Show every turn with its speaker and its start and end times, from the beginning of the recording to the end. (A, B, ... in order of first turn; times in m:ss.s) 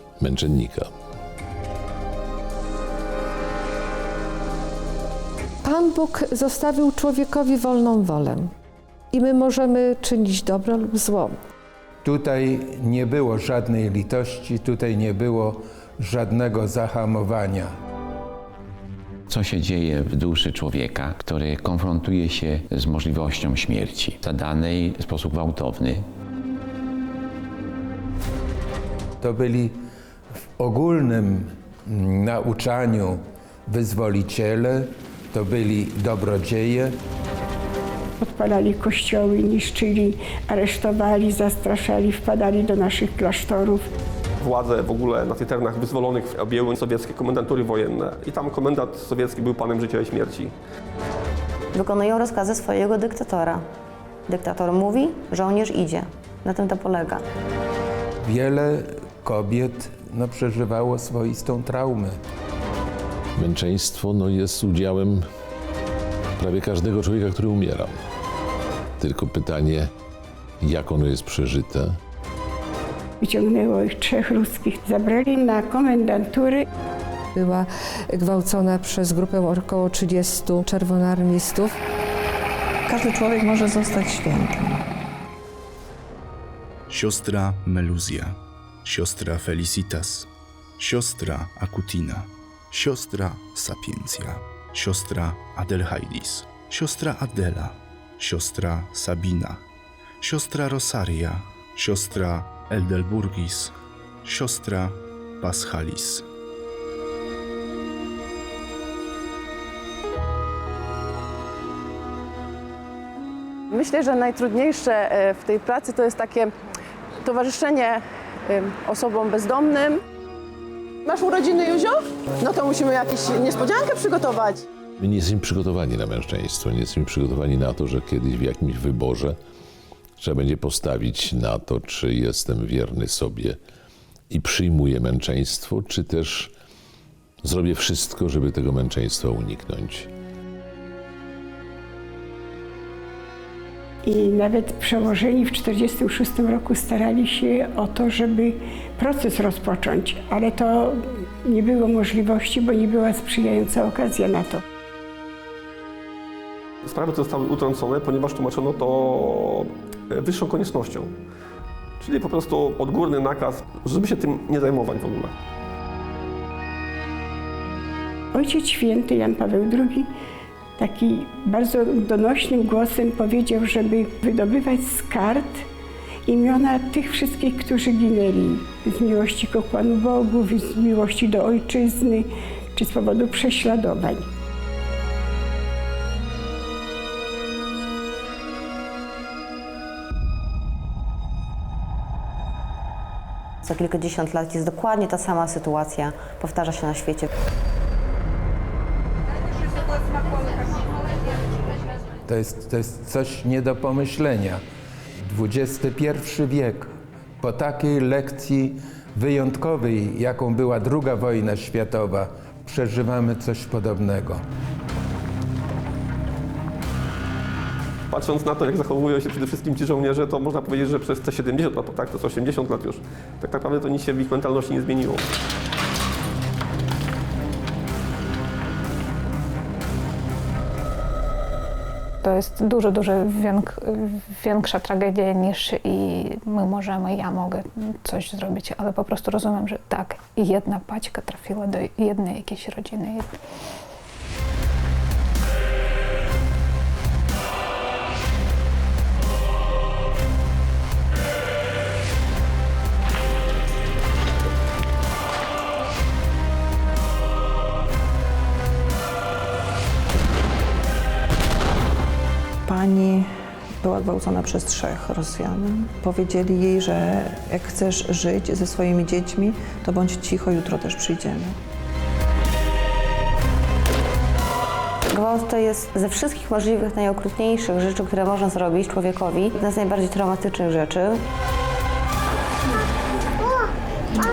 0:00.2-0:00.9 A
0:05.6-0:08.5 B
0:09.1-0:11.4 B
0:12.0-0:17.7 C
0:19.3-0:26.1 D
0:29.2-0:29.7 C
0:30.6-0:36.9 C
0:38.2-0:43.9 E
0:44.4-0:50.5 F
0:51.7-0:53.6 G
0:54.3-0:57.2 G
0:58.2-1:02.2 C
1:03.4-1:05.2 A
1:06.4-1:08.0 A
1:09.0-1:09.9 A
1:10.6-1:12.0 A
1:13.2-1:16.6 E
1:17.3-1:21.8 B
1:22.9-1:24.8 H
1:26.9-1:30.3 I
1:30.8-1:39.6 I
1:40.2-1:43.7 I
1:44.2-1:46.2 I
1:53.7-1:56.5 J
1:57.2-2:00.0 J
2:01.0-2:04.6 J
2:05.0-2:09.4 A
2:10.2-2:13.6 A
2:14.3-2:16.5 A
2:17.4-2:20.1 A
2:24.0-2:34.6 E
2:36.8-2:41.1 F
2:42.0-2:45.3 F
2:48.3-2:50.1 E
2:50.8-2:55.6 E
2:56.3-3:04.3 E
3:13.6-3:17.3 G
3:22.3-3:24.6 C
3:25.2-3:34.4 C
3:38.1-3:45.2 F
3:52.2-4:03.3 K
4:22.7-4:31.6 H
4:35.1-4:41.2 G